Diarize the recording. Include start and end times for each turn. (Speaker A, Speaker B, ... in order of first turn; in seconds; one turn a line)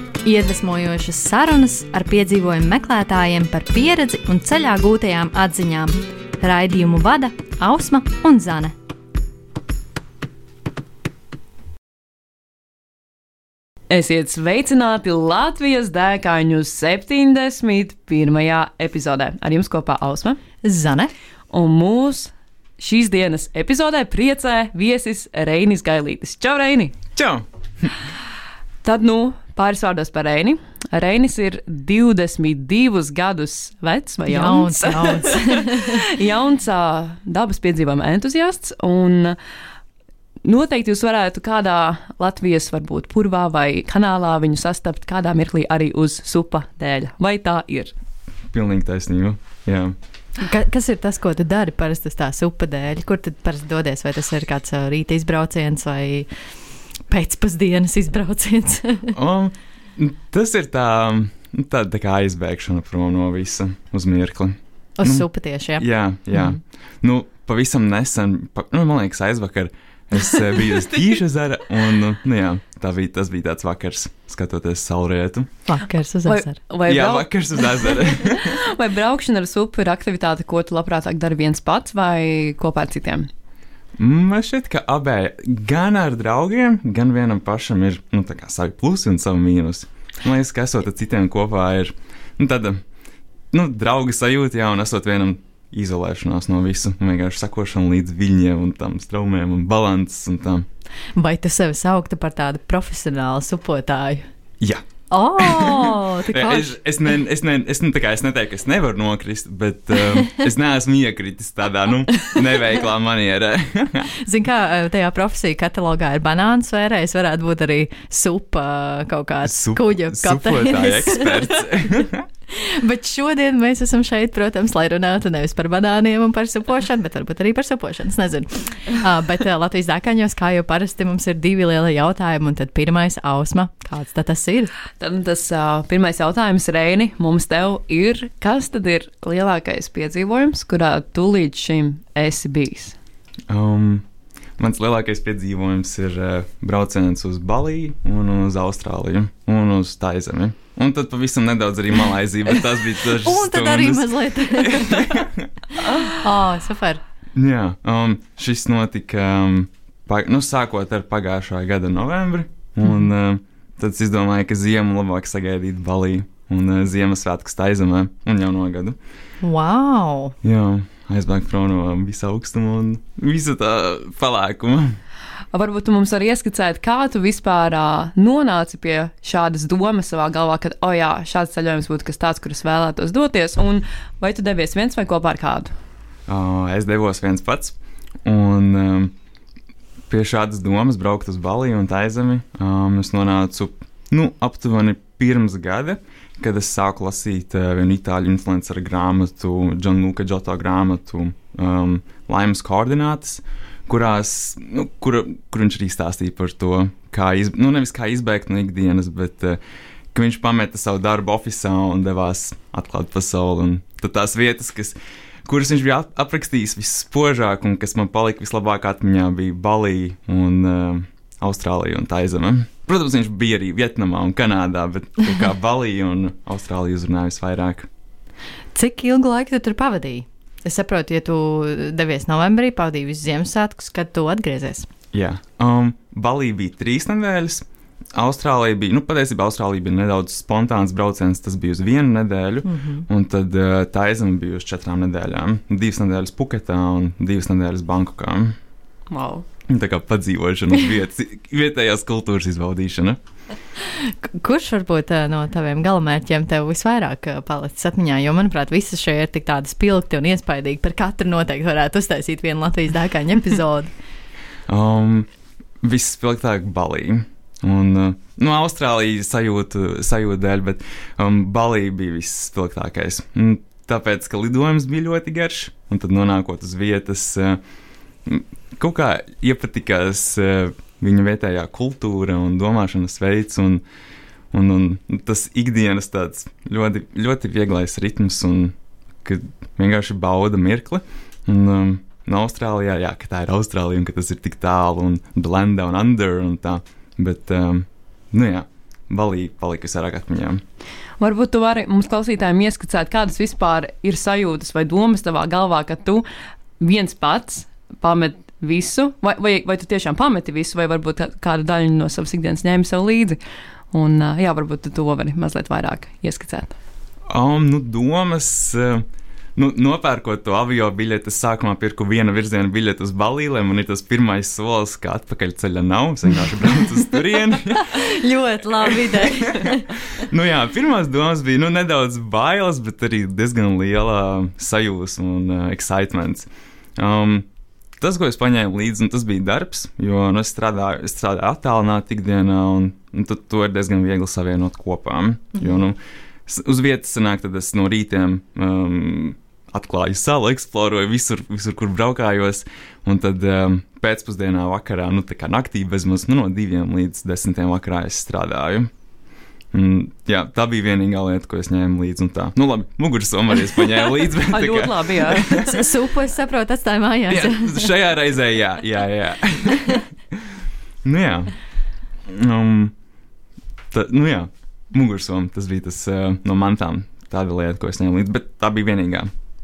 Speaker A: 0.2-8.7
Speaker B: 13.9-20.4
Speaker A: 20.6-21.1
Speaker B: 21.5-26.9
Speaker C: 27.2-27.9
Speaker B: 28.8-39.4
Speaker A: 34.3-36.0
Speaker B: 40.5-47.9
Speaker C: 48.5-50.0
Speaker A: 50.4-56.3
Speaker A: 57.1-59.1
Speaker C: 59.1-75.5
Speaker A: 65.0-66.6
Speaker A: 75.7-76.6
Speaker B: 76.3-83.3
Speaker C: 76.9-78.6
Speaker C: 84.0-92.8
Speaker C: 93.5-100.7
Speaker A: 101.2-104.3
Speaker A: 105.1-106.8
Speaker C: 105.4-114.1
Speaker A: 114.2-122.0
Speaker C: 119.5-122.3
Speaker A: 122.5-134.7
Speaker B: 135.0-143.0
Speaker C: 143.5-144.1
Speaker C: 144.6-155.5
Speaker A: 153.1-157.0
Speaker C: 157.3-169.0
Speaker A: 169.4-170.3
Speaker C: 170.4-175.0
Speaker B: 175.5-185.7
Speaker C: 186.3-189.1
Speaker C: 190.1-209.6
Speaker C: 210.1-227.9
Speaker A: 228.8-234.9
Speaker C: 235.1-248.6
Speaker A: 242.7-243.1
Speaker B: 249.1-249.4
Speaker C: 249.7-253.2
Speaker A: 253.8-263.9
Speaker C: 264.7-265.3
Speaker C: 265.8-277.6
Speaker C: 278.2-283.8
Speaker C: 284.5-300.6
Speaker B: 301.2-306.2
Speaker B: 306.8-313.4
Speaker B: 313.9-316.8
Speaker C: 317.3-328.0
Speaker A: 327.7-330.0
Speaker C: 328.9-337.5
Speaker C: 338.0-358.9
Speaker C: 359.7-365.8
Speaker B: 364.4-365.6
Speaker A: 365.5-367.9
Speaker C: 367.3-370.5
Speaker C: 371.0-371.5
Speaker C: 372.3-372.9
Speaker C: 373.9-379.3